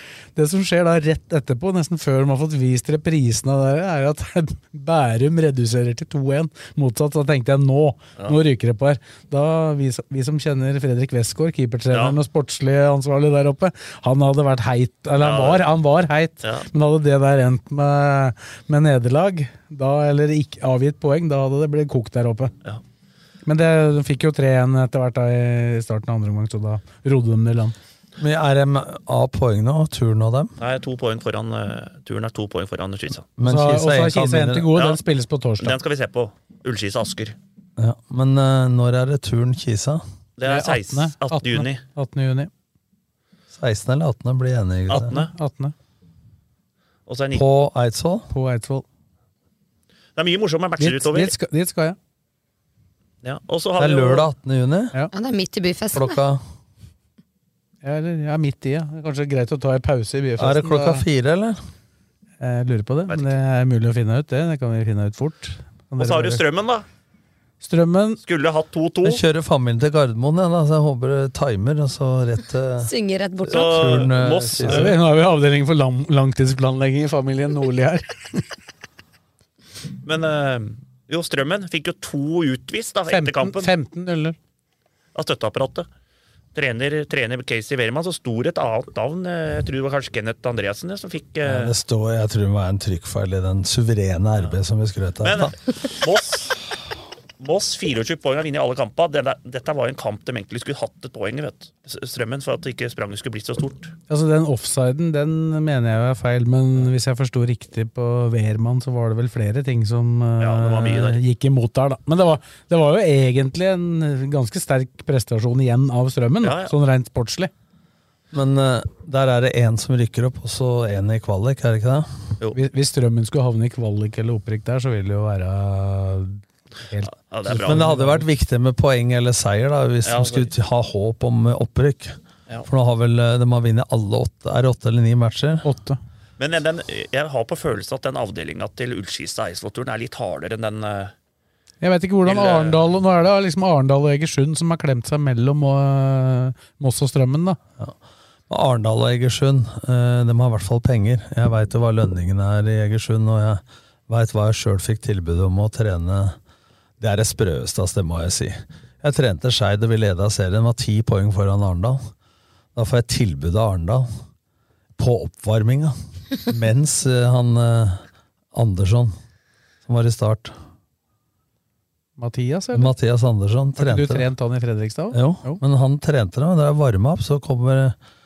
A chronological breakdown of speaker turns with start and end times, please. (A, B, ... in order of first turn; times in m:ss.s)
0:00.4-0:22.5 A
0:11.9-0:12.2 B
0:15.2-0:15.6 B
0:16.4-0:16.7 B
0:23.5-0:27.8 A
0:28.2-0:30.5 C
0:30.6-0:33.3 B
0:33.4-0:34.7 C
0:33.4-0:35.8 A
0:34.7-0:35.0 B
0:35.6-0:37.4 B
0:37.8-0:40.0 C
0:40.4-0:41.8 B
0:40.4-0:42.5 A
0:43.5-0:45.2 C
0:44.9-0:45.3 B
0:45.1-0:45.7 A
0:47.1-0:47.4 B
0:47.3-0:48.3 C
0:48.3-0:48.8 A
0:50.2-0:51.3 B
0:50.8-0:52.0 A
0:53.2-0:54.3 B
0:53.8-0:55.0 C
0:55.1-0:56.2 D
0:55.9-0:56.4 C
0:57.8-1:01.0 A
1:00.4-1:01.6 C
1:02.4-1:06.4 A
1:06.0-1:06.9 B
1:07.6-1:08.2 A
1:08.2-1:09.2 B
1:09.0-1:15.0 C
1:12.8-1:14.0 D
1:13.5-1:15.0 B
1:14.6-1:18.5 A
1:20.0-1:23.7 B
1:23.1-1:24.4 A
1:25.2-1:25.9 B
1:26.5-1:31.7 B
1:31.4-1:35.6 C
1:35.2-1:36.6 B
1:37.4-1:43.9 B
1:44.1-1:57.5 A
1:50.4-1:51.2 B
1:56.4-1:56.7 B
1:58.3-2:02.1 C
2:02.5-2:08.3 A
2:07.1-2:07.9 B
2:07.6-2:15.7 C
2:10.0-2:10.5 B
2:15.6-2:16.0 A
2:16.4-2:21.1 B
2:21.8-2:27.6 A
2:22.3-2:22.8 B
2:28.5-2:36.4 C
2:37.0-2:42.0 C
2:42.8-2:44.1 C
2:45.0-2:49.2 C
2:49.8-2:50.6 C
2:52.2-2:52.9 A
2:52.7-2:54.3 C
2:53.8-2:55.6 A
2:55.1-2:58.0 C